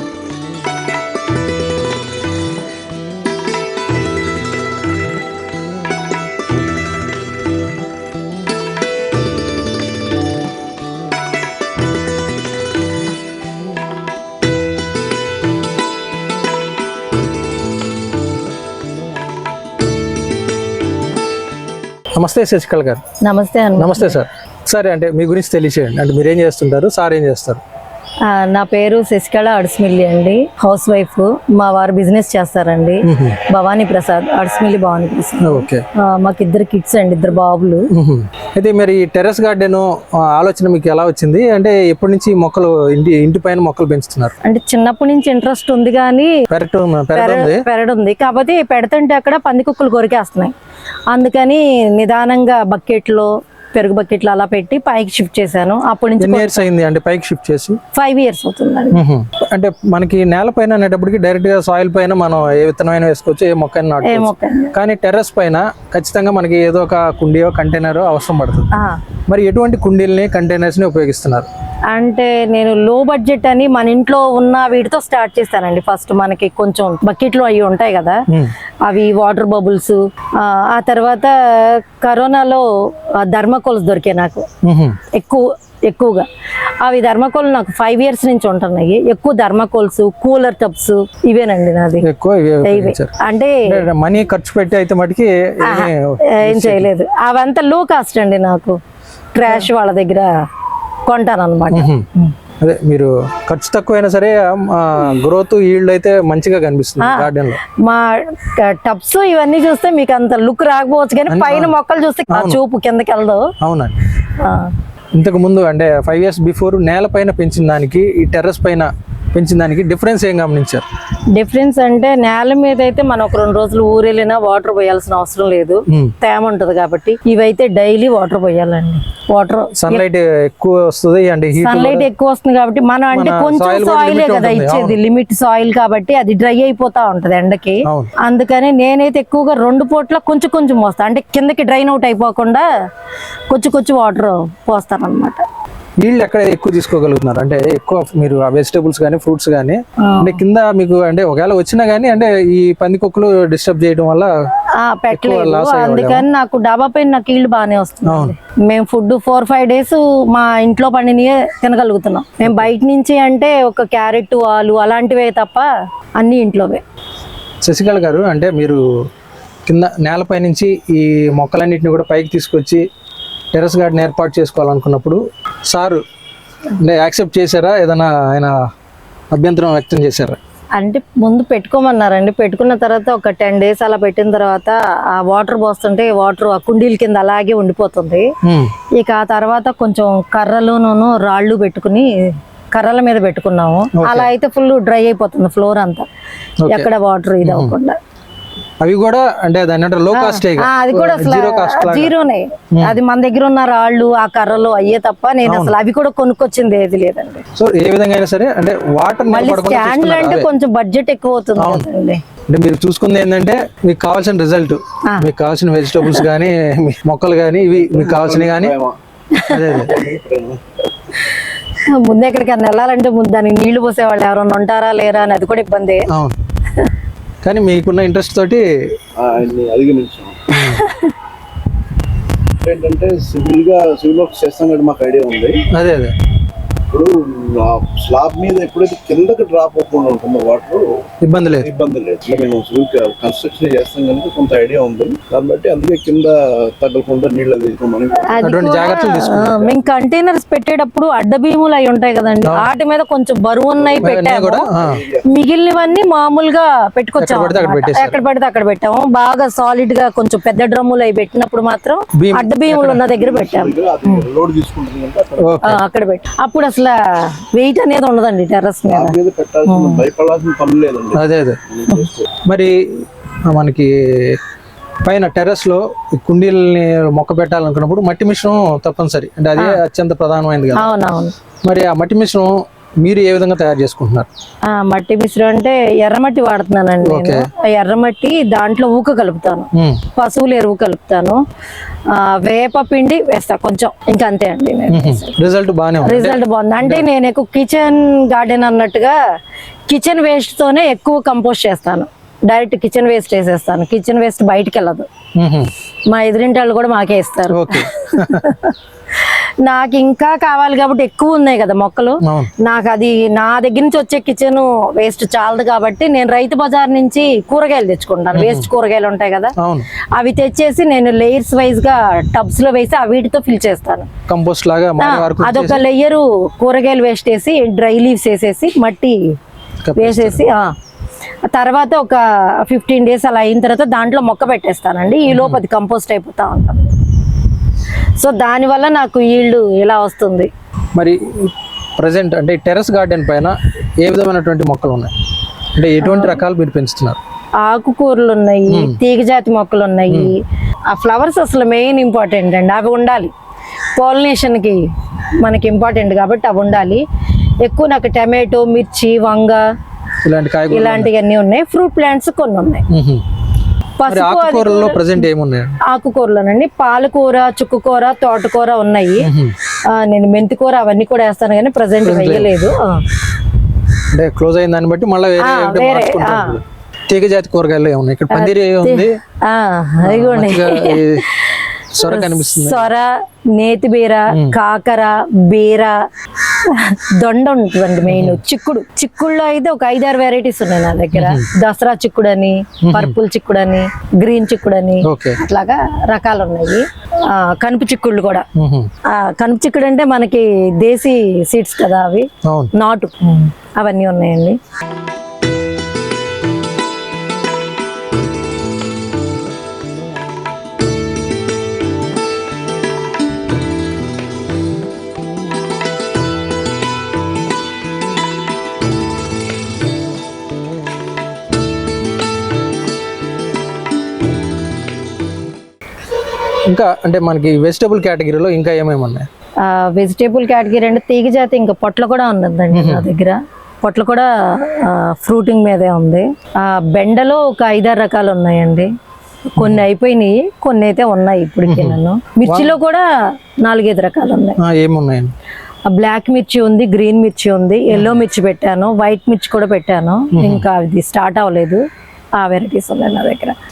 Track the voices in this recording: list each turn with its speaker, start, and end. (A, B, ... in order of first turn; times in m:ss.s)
0:22.2-0:23.0 A
0:23.2-0:24.1 B
0:23.8-0:27.6 A
0:28.3-0:37.8 B
0:33.0-0:33.4 A
0:35.4-0:35.8 A
0:37.9-0:44.3 A
0:44.4-0:46.4 B
0:46.5-0:47.6 A
0:47.1-0:50.5 B
0:51.1-0:56.7 B
0:56.2-0:57.8 A
0:57.9-0:59.0 B
0:58.9-1:08.7 A
1:04.0-1:04.7 B
1:08.7-1:09.0 B
1:09.3-1:11.5 A
1:11.9-1:18.2 B
1:18.8-1:22.6 B
1:23.2-1:24.4 B
1:24.6-1:25.0 A
1:25.1-1:26.3 B
1:26.8-1:32.0 B
1:32.0-1:33.2 A
1:32.6-1:33.6 B
1:33.7-1:36.9 A
1:35.6-1:38.8 B
1:39.3-1:40.3 B
1:41.1-1:42.3 B
1:41.7-1:42.0 A
1:42.6-1:47.6 A
1:47.0-1:47.3 B
1:47.8-1:53.5 B
1:51.3-1:51.8 A
1:52.3-1:52.6 A
1:53.6-1:53.9 A
1:54.4-1:54.7 B
1:55.2-2:00.8 A
2:01.3-2:10.0 B
2:09.8-2:12.1 A
2:11.6-2:22.6 B
2:13.1-2:15.0 A
2:17.8-2:18.1 A
2:23.5-2:25.4 B
2:26.0-2:34.3 A
2:30.0-2:30.4 B
2:34.8-2:45.7 B
2:35.1-2:36.2 A
2:38.0-2:38.3 A
2:42.4-2:42.7 A
2:46.2-2:46.8 B
2:47.6-2:48.8 A
2:49.7-2:52.8 A
2:53.5-2:56.0 A
2:56.8-2:58.5 A
2:59.3-3:00.4 A
3:00.8-3:08.3 B
3:08.4-3:08.7 A
3:09.0-3:12.1 B
3:12.7-3:16.0 B
3:13.9-3:14.3 A
3:16.6-3:16.9 A
3:16.7-3:18.0 B
3:17.4-3:17.7 A
3:18.8-3:22.1 A
3:20.1-3:27.4 B
3:25.4-3:25.8 A
3:27.6-3:30.5 A
3:29.3-3:32.2 B
3:31.6-3:31.9 A
3:32.5-3:38.8 A
3:36.0-3:36.2 B
3:37.7-3:39.0 C
3:39.3-3:39.8 B
3:39.5-3:40.0 A
3:39.8-3:40.6 C
3:41.8-3:46.0 B
3:46.1-3:46.4 A
3:47.4-3:48.6 A
3:49.2-3:50.5 C
3:50.5-3:50.8 A
3:50.6-3:51.1 B
3:52.6-3:55.6 C
3:55.7-3:56.1 A
3:56.9-4:01.0 C
4:01.2-4:01.7 A
4:01.6-4:09.0 C
4:08.3-4:14.7 B
4:08.4-4:09.6 A
4:13.8-4:14.1 C
4:14.0-4:14.9 A
4:14.8-4:15.2 C
4:15.3-4:24.2 B
4:17.2-4:18.2 A
4:22.2-4:23.0 A
4:23.1-4:25.6 C
4:25.4-4:25.8 A
4:25.6-4:29.1 B
4:28.9-4:32.3 C
4:29.7-4:30.0 B
4:31.1-4:31.6 A
4:32.5-4:34.4 A
4:35.0-4:40.9 A
4:40.7-4:41.3 B
4:41.6-4:44.3 A
4:44.7-4:51.4 B
4:47.0-4:47.5 A
4:49.7-4:50.0 A
4:52.1-4:55.4 B
4:54.9-4:57.0 A
4:56.0-4:59.2 B
4:59.9-5:05.1 B
5:05.4-5:05.7 A
5:06.1-5:08.7 B
5:07.5-5:08.5 A
5:09.3-5:19.5 B
5:12.2-5:12.5 A
5:18.3-5:18.7 A
5:19.6-5:19.9 A
5:20.2-5:24.1 B
5:24.3-5:25.8 A
5:25.0-5:29.2 B
5:29.8-5:30.4 A
5:30.0-5:30.7 B
5:31.5-5:36.9 B
5:35.3-5:35.6 A
5:38.2-5:40.5 B
5:41.0-5:45.1 A
5:45.8-5:47.2 A
5:46.0-5:46.4 B
5:47.6-5:50.4 B
5:48.7-5:49.0 A
5:50.9-5:53.3 B
5:54.0-5:54.8 B
5:55.4-5:57.0 B
5:57.6-5:59.6 B
6:00.2-6:01.1 A
6:00.7-6:02.8 B
6:02.9-6:03.2 A
6:04.0-6:05.1 B
6:04.1-6:05.8 A
6:05.8-6:09.3 B
6:09.2-6:09.5 A
6:09.9-6:13.0 B
6:12.0-6:12.5 A
6:14.1-6:19.2 A
6:15.4-6:16.6 B
6:18.3-6:25.9 B
6:20.0-6:21.3 A
6:21.9-6:22.9 A
6:24.3-6:24.6 A
6:26.6-6:38.4 B
6:28.1-6:28.4 A
6:31.1-6:31.4 A
6:32.8-6:33.2 A
6:35.0-6:35.4 A
6:38.6-6:38.9 A
6:39.1-6:44.6 B
6:42.4-6:42.7 A
7:06.7-7:09.3 A
7:09.6-7:18.9 B
7:12.7-7:13.1 A
7:19.5-7:23.0 B
7:19.6-7:19.8 A
7:21.7-7:22.7 A
7:23.6-7:24.6 B
7:24.6-7:25.3 A
7:25.9-7:31.8 B
7:27.9-7:28.2 A
7:30.3-7:30.6 A
7:32.4-7:33.5 B